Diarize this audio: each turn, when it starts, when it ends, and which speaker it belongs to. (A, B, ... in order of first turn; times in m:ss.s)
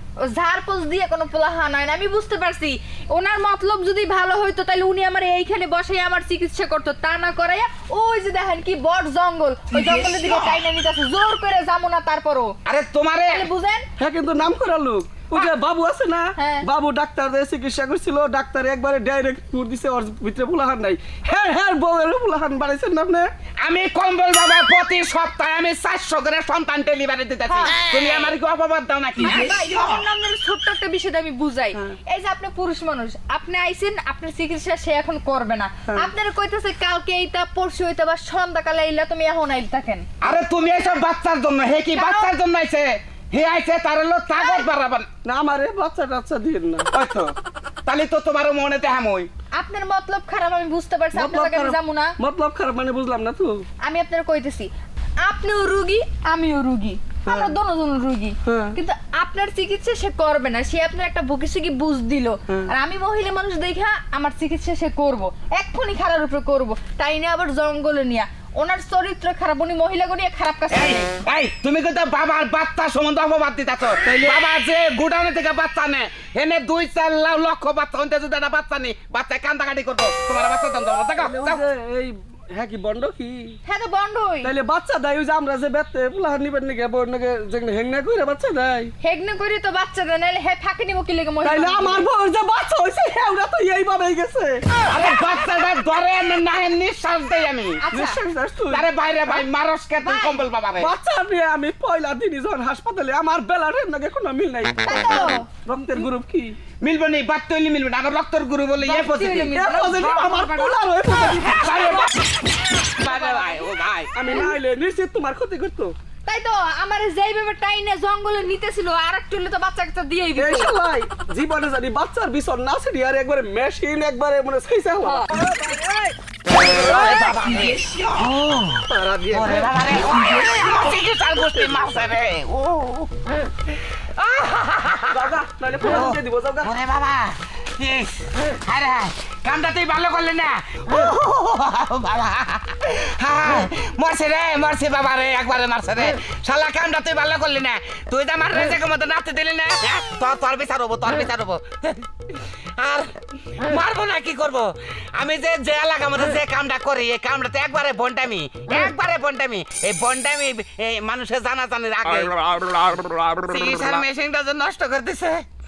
0:00.3-0:12.6 A
0:12.6-0:13.5 B
0:13.3-0:13.9 A
0:14.0-0:23.3 C
0:16.4-0:16.7 A
0:23.6-0:29.4 B
0:27.5-0:28.3 A
0:29.2-0:40.1 A
0:40.2-0:45.1 B
0:41.9-0:42.3 A
0:44.4-0:44.7 A
0:45.2-0:46.9 C
0:46.9-0:49.3 B
0:49.5-0:52.2 A
0:51.1-0:53.6 C
0:53.8-0:54.7 A
0:55.2-1:11.1 A
0:57.2-0:57.5 C
0:58.4-0:58.8 C
1:10.7-1:21.6 B
1:14.0-1:14.4 C
1:21.2-1:23.6 C
1:23.6-1:24.5 A
1:24.4-1:28.9 C
1:29.0-1:32.1 A
1:31.4-1:34.6 C
1:34.9-1:37.8 B
1:37.8-1:38.2 A
1:37.9-1:38.9 C
1:38.7-1:40.9 B
1:40.0-1:40.4 A
1:40.8-1:46.6 C
1:44.8-1:45.5 A
1:46.8-1:49.6 B
1:48.8-1:52.1 A
1:49.5-1:51.7 C
1:51.4-1:54.2 B
1:52.8-1:53.7 A
1:54.1-1:55.9 C
1:56.2-2:00.7 A
2:00.4-2:05.3 C
2:06.5-2:13.1 B
2:08.9-2:09.6 C
2:13.9-2:15.2 B
2:15.1-2:16.7 C
2:15.8-2:45.4 B